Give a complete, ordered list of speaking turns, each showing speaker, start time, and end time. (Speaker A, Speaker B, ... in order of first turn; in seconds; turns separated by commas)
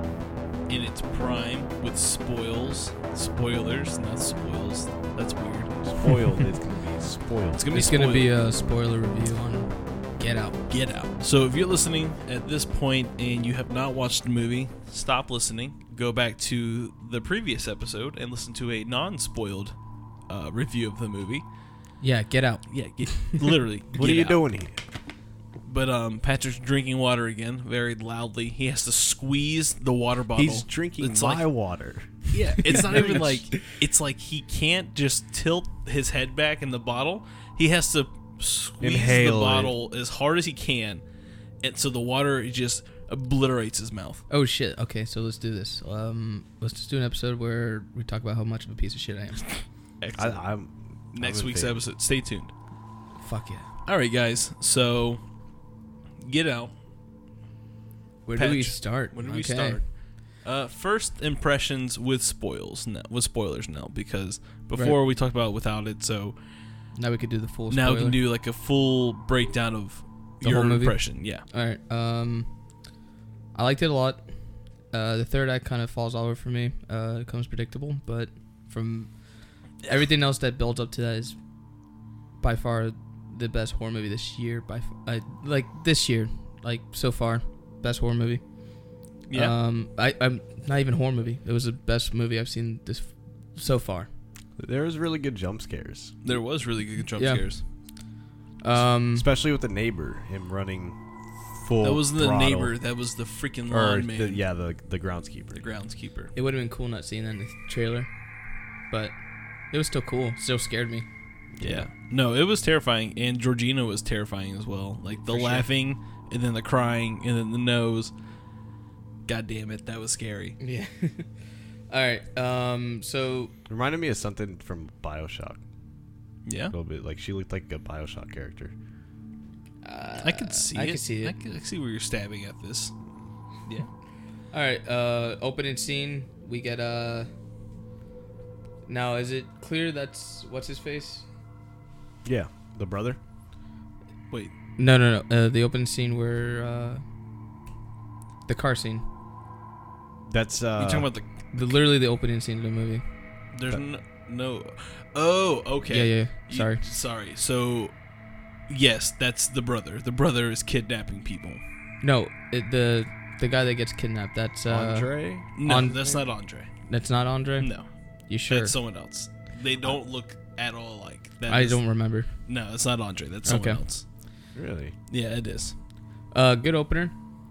Speaker A: 0.7-6.3, Speaker B: 5.8-7.6, Speaker A: 7.5-8.3, Speaker C: 7.7-10.6, Speaker A: 10.7-19.8, Speaker A: 20.3-21.4, Speaker C: 22.0-23.5, Speaker A: 22.7-24.4, Speaker B: 23.9-24.8, Speaker A: 25.6-31.4, Speaker B: 30.3-33.3, Speaker A: 32.3-41.0, Speaker C: 32.7-33.2, Speaker B: 38.8-39.7, Speaker A: 41.6-44.2, Speaker C: 44.3-49.5, Speaker A: 50.0-50.4, Speaker B: 50.1-51.8, Speaker A: 51.1-52.5, Speaker C: 53.2-53.7, Speaker A: 53.9-55.2, Speaker A: 56.2-56.7, Speaker C: 58.2-59.8, Speaker A: 58.4-66.3, Speaker C: 67.0-68.2, Speaker A: 67.7-71.4, Speaker C: 70.4-72.5, Speaker C: 73.5-74.3, Speaker C: 74.9-79.2, Speaker C: 79.8-81.4, Speaker C: 82.4-88.5, Speaker C: 89.2-94.1, Speaker A: 89.3-89.5, Speaker B: 94.6-96.2, Speaker A: 96.2-97.6, Speaker C: 97.2-97.5, Speaker C: 98.6-99.2, Speaker B: 98.7-101.0, Speaker B: 101.5-102.7, Speaker A: 101.8-104.4, Speaker B: 103.7-105.6, Speaker A: 105.5-106.3, Speaker C: 106.3-108.1, Speaker C: 108.9-109.2, Speaker C: 109.7-111.0, Speaker B: 111.5-111.9, Speaker A: 111.6-118.1, Speaker C: 115.3-115.7, Speaker A: 119.3-120.6, Speaker C: 120.6-121.3, Speaker C: 121.9-123.5, Speaker B: 123.7-125.6, Speaker A: 126.5-126.7, Speaker B: 126.7-128.7, Speaker C: 129.8-131.4, Speaker A: 130.2-132.9, Speaker C: 134.5-137.3, Speaker C: 138.8-141.3, Speaker B: 142.2-143.2, Speaker C: 144.8-147.0, Speaker C: 148.5-149.0, Speaker B: 150.3-151.1, Speaker A: 150.8-151.3, Speaker C: 151.5-153.0, Speaker A: 153.5-157.9, Speaker C: 155.9-156.8, Speaker A: 158.7-161.6, Speaker C: 162.0-166.0, Speaker B: 164.7-166.2, Speaker A: 165.6-166.7, Speaker C: 166.8-167.7, Speaker A: 167.6-167.9, Speaker C: 168.3-168.7, Speaker A: 168.5-171.8, Speaker C: 171.5-172.3, Speaker A: 172.4-174.0, Speaker C: 173.4-173.8, Speaker B: 174.5-174.9, Speaker A: 175.1-175.7, Speaker C: 176.3-177.1